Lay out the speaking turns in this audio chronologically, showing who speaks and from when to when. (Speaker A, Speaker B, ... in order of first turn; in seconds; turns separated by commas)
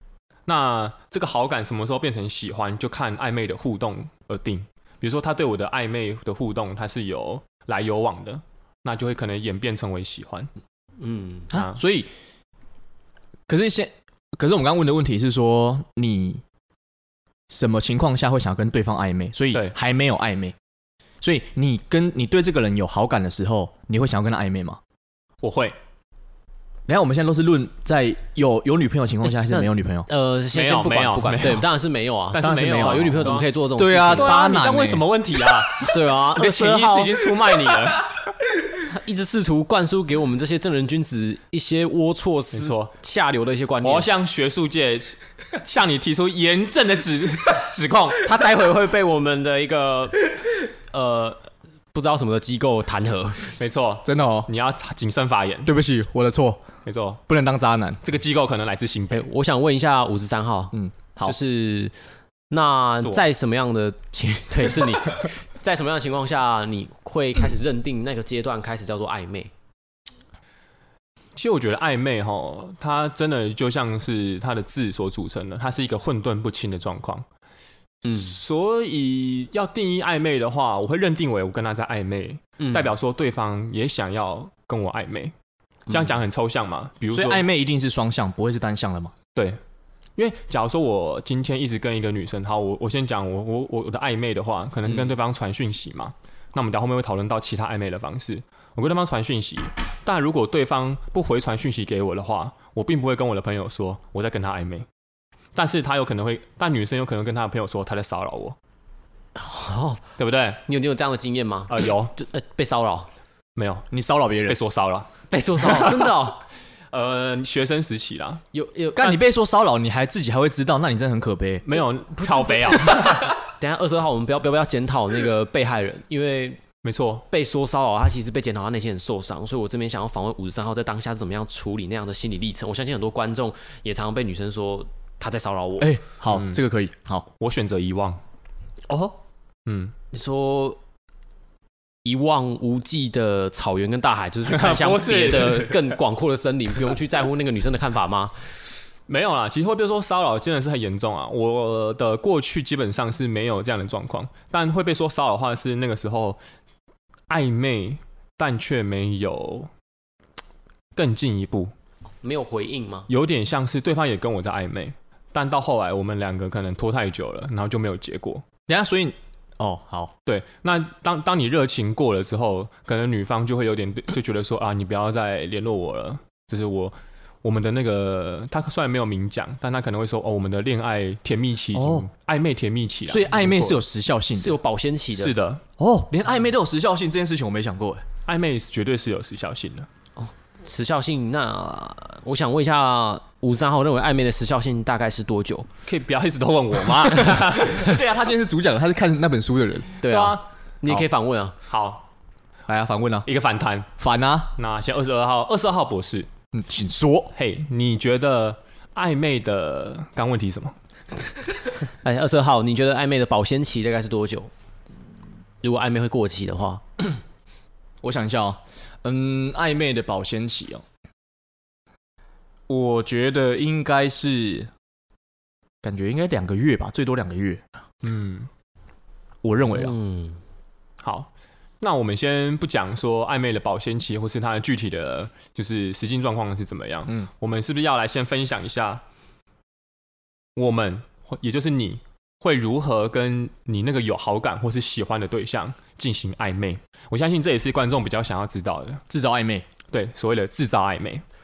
Speaker A: 0.5-10.5, Speaker B: 11.0-11.5, Speaker C: 11.5-12.1, Speaker A: 11.5-11.8, Speaker C: 13.5-16.4, Speaker C: 17.5-20.6, Speaker C: 21.2-24.8, Speaker A: 25.4-25.8, Speaker C: 26.9-30.1, Speaker B: 29.4-34.4, Speaker A: 30.5-31.7, Speaker A: 32.3-33.5, Speaker C: 32.4-35.0, Speaker A: 34.1-38.2, Speaker B: 35.8-37.3, Speaker B: 38.8-44.1, Speaker A: 42.5-42.9, Speaker A: 43.8-48.2, Speaker B: 48.2-53.5, Speaker A: 53.6-55.7, Speaker C: 54.0-54.5, Speaker C: 55.6-56.6, Speaker A: 56.8-57.2, Speaker C: 57.3-58.0, Speaker A: 58.0-59.2, Speaker B: 59.1-61.9, Speaker C: 60.7-61.4, Speaker B: 62.5-69.5, Speaker A: 71.3-77.2, Speaker B: 78.0-78.3, Speaker A: 78.1-85.3, Speaker B: 82.6-82.9, Speaker A: 85.9-87.4, Speaker C: 87.1-89.1, Speaker A: 90.2-104.9, Speaker A: 105.5-108.6, Speaker B: 109.3-110.0, Speaker A: 110.2-110.6, Speaker B: 110.7-113.1, Speaker A: 111.7-112.1, Speaker A: 113.5-113.9, Speaker C: 113.9-114.6, Speaker A: 114.5-115.1, Speaker B: 115.3-116.4, Speaker A: 115.6-116.1, Speaker A: 116.9-118.4, Speaker B: 118.5-119.2, Speaker C: 118.9-121.6, Speaker A: 121.6-123.3, Speaker B: 122.2-126.6, Speaker A: 126.8-127.2, Speaker B: 127.3-135.9, Speaker C: 135.8-137.3, Speaker A: 136.3-136.6, Speaker A: 137.4-138.2, Speaker A: 139.7-139.9, Speaker B: 140.1-140.8, Speaker B: 142.0-148.4, Speaker A: 144.5-145.9, Speaker A: 149.1-156.4, Speaker A: 157.3-159.7, Speaker A: 160.9-161.7, Speaker B: 162.2-163.1, Speaker A: 163.1-168.4, Speaker C: 168.7-170.1, Speaker A: 170.2-183.8, Speaker C: 181.7-182.1, Speaker C: 183.1-184.6, Speaker B: 184.3-185.3, Speaker A: 185.1-185.6, Speaker C: 185.8-188.0, Speaker A: 188.3-189.9, Speaker B: 190.2-195.7, Speaker A: 195.8-197.9, Speaker C: 197.7-200.0, Speaker B: 200.0-201.6, Speaker A: 200.0-200.4, Speaker A: 201.7-202.1, Speaker C: 202.7-203.3, Speaker A: 203.2-203.9, Speaker C: 204.0-204.5, Speaker A: 204.5-206.3, Speaker C: 206.5-207.3, Speaker A: 207.3-210.8, Speaker B: 212.0-214.5, Speaker B: 215.6-216.8, Speaker C: 218.0-220.8, Speaker C: 222.7-224.7, Speaker C: 225.8-227.6, Speaker A: 228.0-228.5, Speaker C: 229.4-230.0, Speaker B: 229.7-230.4, Speaker A: 231.0-231.3, Speaker A: 231.8-239.0, Speaker A: 240.6-249.0, Speaker C: 249.1-249.7, Speaker A: 249.9-251.2